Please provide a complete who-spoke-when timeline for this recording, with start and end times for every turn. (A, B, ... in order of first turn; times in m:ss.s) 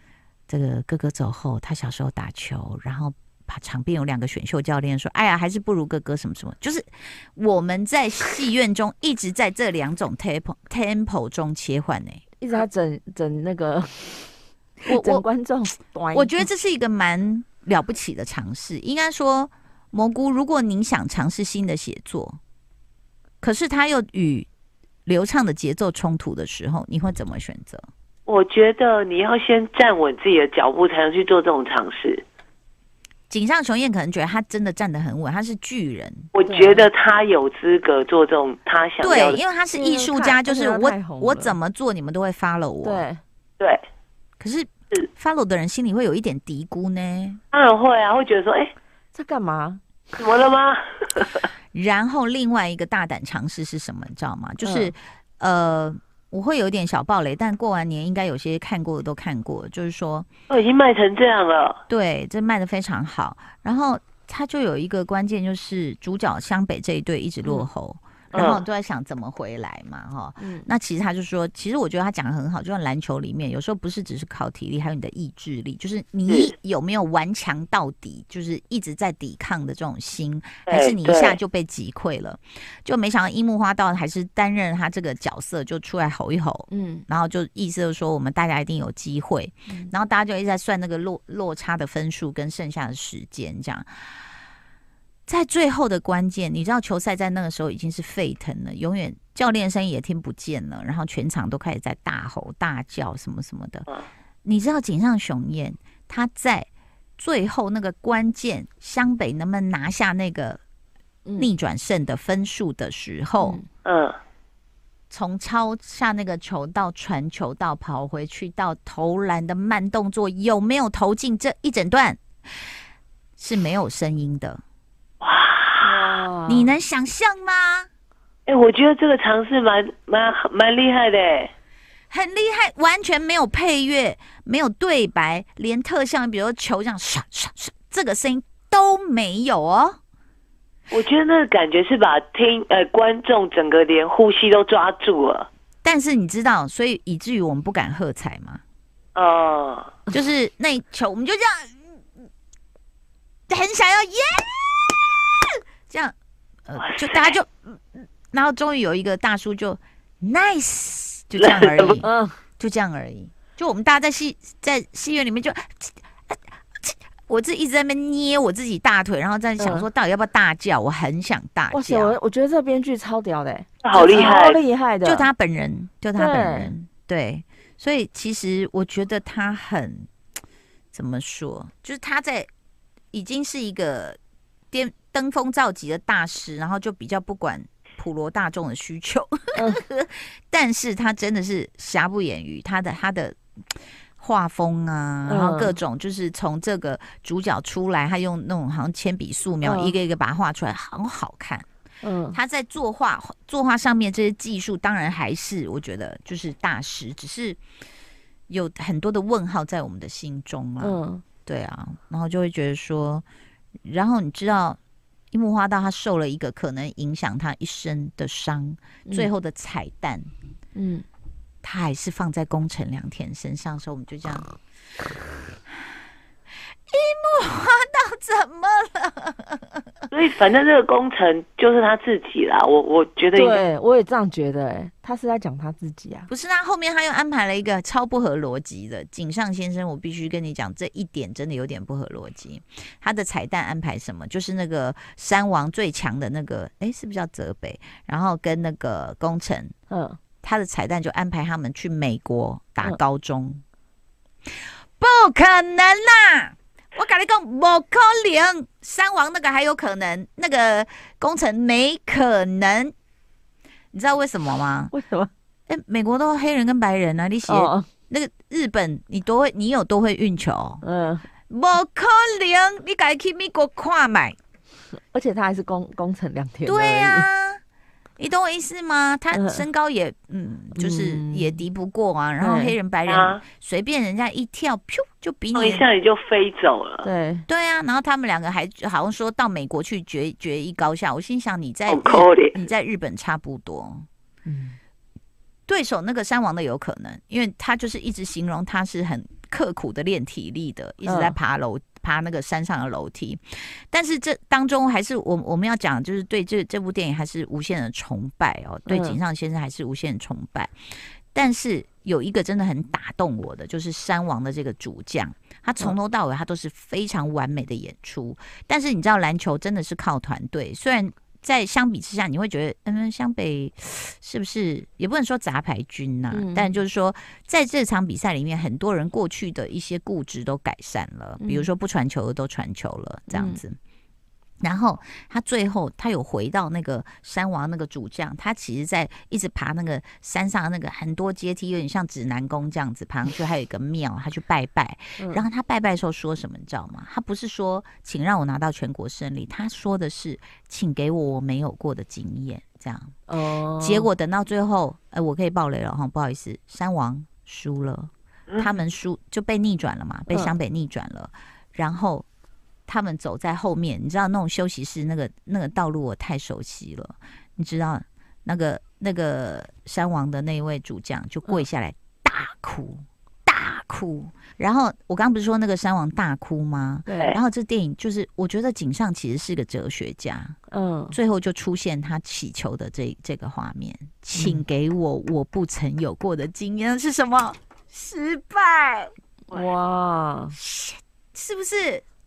0:00.5-0:12.2 A
0:12.4-0:16.5 B
0:14.9-0:15.2 A
0:16.1-0:22.4 A
0:23.4-0:24.5 A
0:25.1-0:27.9 A
0:28.3-0:32.2 C
0:33.3-0:36.3 A
0:36.3-0:39.4 C
0:36.5-0:36.9 B
0:39.0-0:43.1 A
0:39.7-0:41.6 B
0:42.8-0:43.2 B
0:44.4-0:47.4 A
0:47.5-0:48.7 C
0:49.1-0:49.8 B
0:50.2-0:51.5 C
0:51.7-1:00.3 A
1:00.5-1:01.8 C
1:01.9-1:34.2 A
1:08.3-1:08.6 C
1:10.4-1:10.7 B
1:16.3-1:16.5 C
1:20.7-1:21.4 C
1:26.7-1:27.0 B
1:35.3-1:43.9 A
1:44.4-1:46.7 A
1:47.2-1:50.6 A
1:51.2-1:51.5 B
1:51.4-1:53.6 A
1:53.4-1:53.7 B
1:53.8-1:54.2 C
1:55.1-2:02.2 A
2:03.4-2:04.6 A
2:05.2-2:06.2 C
2:05.8-2:06.7 B
2:06.5-2:07.9 A
2:08.5-2:11.5 C
2:12.1-2:20.0 A
2:20.9-2:25.5 C
2:25.8-2:28.6 A
2:29.2-2:29.9 C
2:30.1-2:31.8 A
2:33.5-2:36.2 A
2:36.7-2:42.1 A
2:36.8-2:37.3 C
2:41.4-2:42.0 C
2:42.0-2:42.4 B
2:42.6-2:52.2 A
2:49.6-2:49.9 B
2:51.7-2:55.3 B
2:53.8-2:54.6 C
2:55.0-3:00.1 A
2:56.2-2:56.7 B
3:00.9-3:02.5 A
3:03.1-3:04.2 A
3:04.7-3:21.7 A
3:15.3-3:15.8 B
3:19.6-3:20.0 B
3:22.0-3:22.4 B
3:22.3-3:27.6 A
3:28.5-3:33.2 A
3:30.8-3:31.2 B
3:33.8-3:34.8 A
3:35.3-3:40.3 A
3:39.1-3:39.3 B
3:40.8-3:41.0 B
3:41.6-3:44.5 A
3:46.9-3:49.7 A
3:50.1-3:53.6 C
3:53.3-3:56.3 B
3:56.3-4:09.7 A
4:09.9-4:10.2 B
4:10.4-4:13.6 A
4:15.0-4:22.9 A
4:23.9-4:24.9 A
4:24.9-4:25.3 B
4:25.7-4:30.8 A
4:27.5-4:27.9 B
4:30.8-4:31.3 B
4:31.5-4:34.4 A
4:35.1-4:37.3 B
4:36.7-4:37.6 A
4:38.2-4:45.9 A
4:39.3-4:39.7 B
4:40.8-4:41.6 B
4:42.4-4:42.8 B
4:43.1-4:43.4 C
4:45.6-4:47.1 C
4:47.0-4:47.5 B
4:47.5-4:54.1 A
4:51.9-4:52.6 C
4:54.5-4:54.8 B
4:55.7-5:33.8 A
5:01.0-5:01.4 B
5:08.9-5:09.2 B
5:26.3-5:26.7 B
5:31.4-5:31.7 B
5:33.3-5:33.6 B
5:34.6-5:53.2 A
5:45.2-5:45.4 B
5:53.3-5:54.1 B
5:53.8-6:02.3 A
6:00.3-6:00.5 B
6:02.9-6:20.6 A
6:17.1-6:17.4 B
6:20.7-6:21.2 B
6:21.1-6:29.1 A
6:24.4-6:24.6 B
6:29.5-6:30.6 B
6:30.6-6:32.0 A